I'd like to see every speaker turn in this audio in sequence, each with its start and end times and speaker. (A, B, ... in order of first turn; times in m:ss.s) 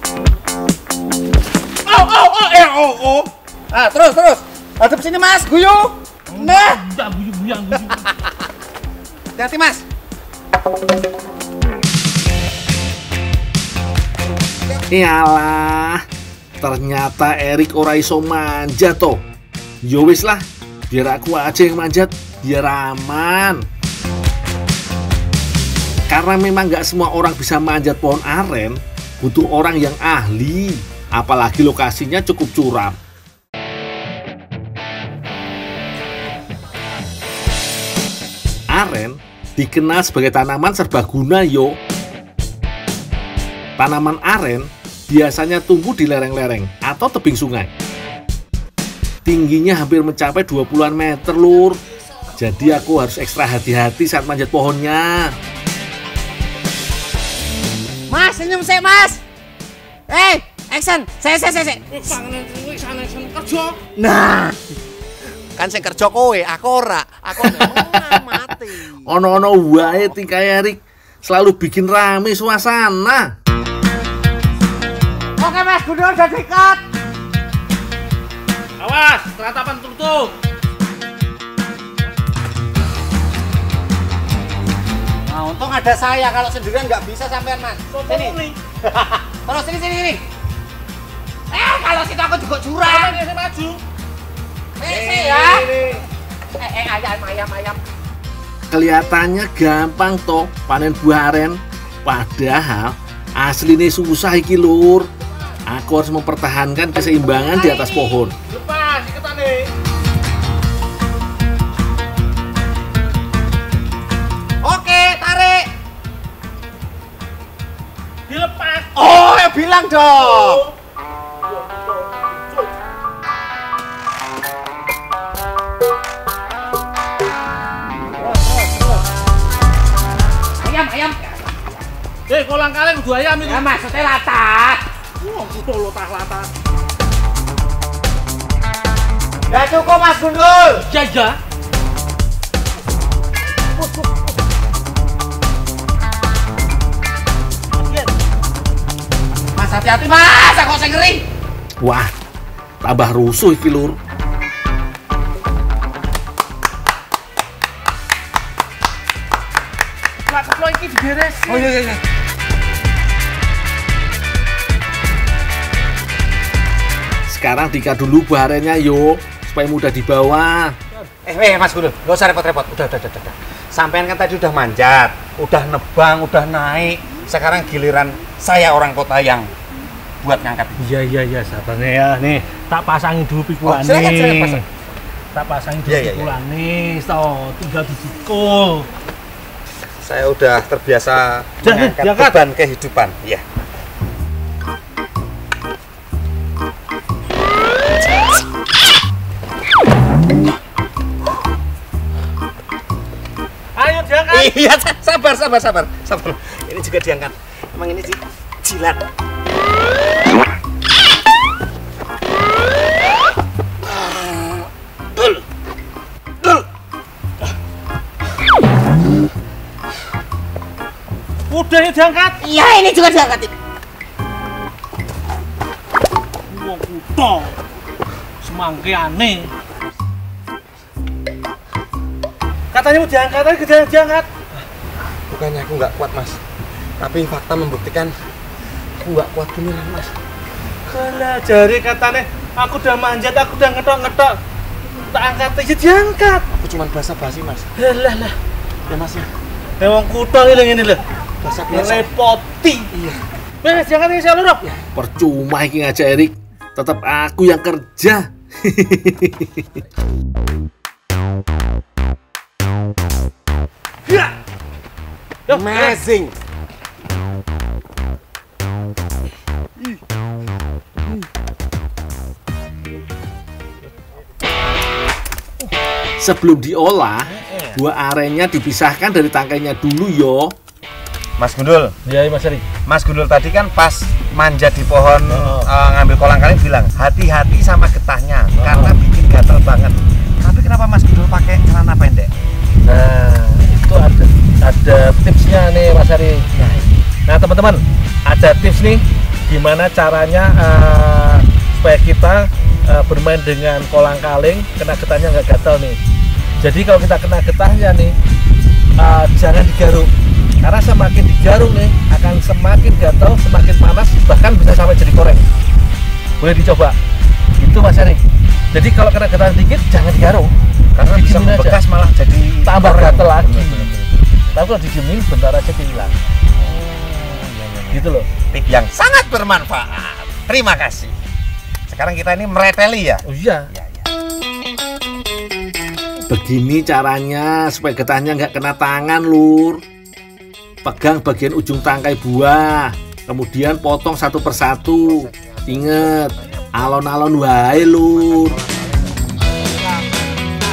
0:01.8-0:06.9 A
0:06.3-0:08.0 B
0:07.8-0:08.3 A
0:09.4-0:09.8 A
0:14.9-0:16.0 C
0:16.6-0:19.2 C
0:19.8-0:23.6 C
0:26.1-0:33.0 C
0:38.7-0:41.8 C
0:43.8-0:47.7 C
0:49.2-0:51.8 C
0:52.4-0:55.3 C
0:58.1-0:59.2 A
1:00.1-1:01.9 A
1:01.9-1:03.8 B
1:04.0-1:04.8 A
1:05.6-1:09.4 A
1:07.4-1:08.2 C
1:09.0-1:13.3 C
1:15.4-1:16.8 A
1:18.8-1:20.3 B
1:25.3-1:30.2 A
1:27.9-1:28.6 B
1:31.5-1:33.2 A
1:32.8-1:33.8 B
1:34.8-1:35.8 A
1:34.8-1:36.0 B
1:36.6-1:37.8 A
1:38.7-1:45.1 C
1:45.7-1:48.4 C
1:47.3-1:47.8 A
1:47.8-1:49.7 B
1:54.6-1:55.7 A
1:58.3-1:59.0 B
1:58.9-2:00.7 A
2:00.1-2:00.7 B
2:01.5-2:02.6 B
2:08.2-2:09.0 B
2:10.6-2:11.6 A
2:12.3-2:13.7 B
2:13.4-2:14.8 A
2:15.2-2:16.5 B
2:19.5-2:20.9 A
2:20.8-2:21.4 B
2:27.8-2:28.1 B
2:29.5-2:31.2 A
2:31.8-2:32.1 C
2:32.8-2:34.0 C
2:40.2-2:41.7 B
2:41.5-2:42.0 A
2:47.3-2:50.8 C
2:51.2-2:59.5 A
3:00.2-3:00.8 A
3:00.8-3:04.6 B
3:03.6-3:04.6 A
3:05.3-3:08.9 B
3:05.8-3:06.4 A
3:10.0-3:13.4 A
3:11.6-3:12.4 B
3:23.7-3:24.5 B
3:24.3-3:29.0 A
3:33.8-3:35.4 A
3:41.5-3:42.4 B
3:42.4-3:43.5 A
3:46.5-3:47.6 B
3:48.4-3:49.5 B
3:52.7-3:54.3 B
3:55.3-3:56.4 A
3:57.0-3:58.1 A
3:59.0-4:00.1 A
4:00.9-4:04.4 B
4:05.1-4:06.4 B
4:06.5-4:07.7 A
4:07.8-4:08.4 B
4:08.9-4:09.3 A
4:09.8-4:11.0 B
4:11.4-4:12.1 A
4:11.7-4:12.9 B
4:12.9-4:13.2 A
4:13.6-4:14.6 B
4:14.9-4:19.7 C
4:25.5-4:26.0 B
4:25.5-4:26.3 A
4:36.2-4:40.5 C
4:37.2-4:37.8 A
4:41.4-4:41.9 A
4:42.0-4:42.7 B
4:42.8-4:52.3 A
4:45.3-4:45.7 B
4:48.6-4:49.0 B
4:52.8-4:56.5 B
4:56.5-4:56.9 A
4:57.2-5:06.0 B
5:06.6-5:08.2 B
5:09.0-5:15.5 B
5:16.4-5:17.0 B
5:17.6-5:20.5 B
5:20.9-5:23.9 A
5:21.1-5:21.8 B
5:22.7-5:26.2 B
5:26.6-5:31.1 A
5:27.9-5:28.3 B
5:31.9-5:34.1 A
5:33.2-5:33.7 B
5:36.3-5:39.8 C
5:40.8-5:48.5 C
5:45.0-5:46.7 A
5:47.8-5:49.2 A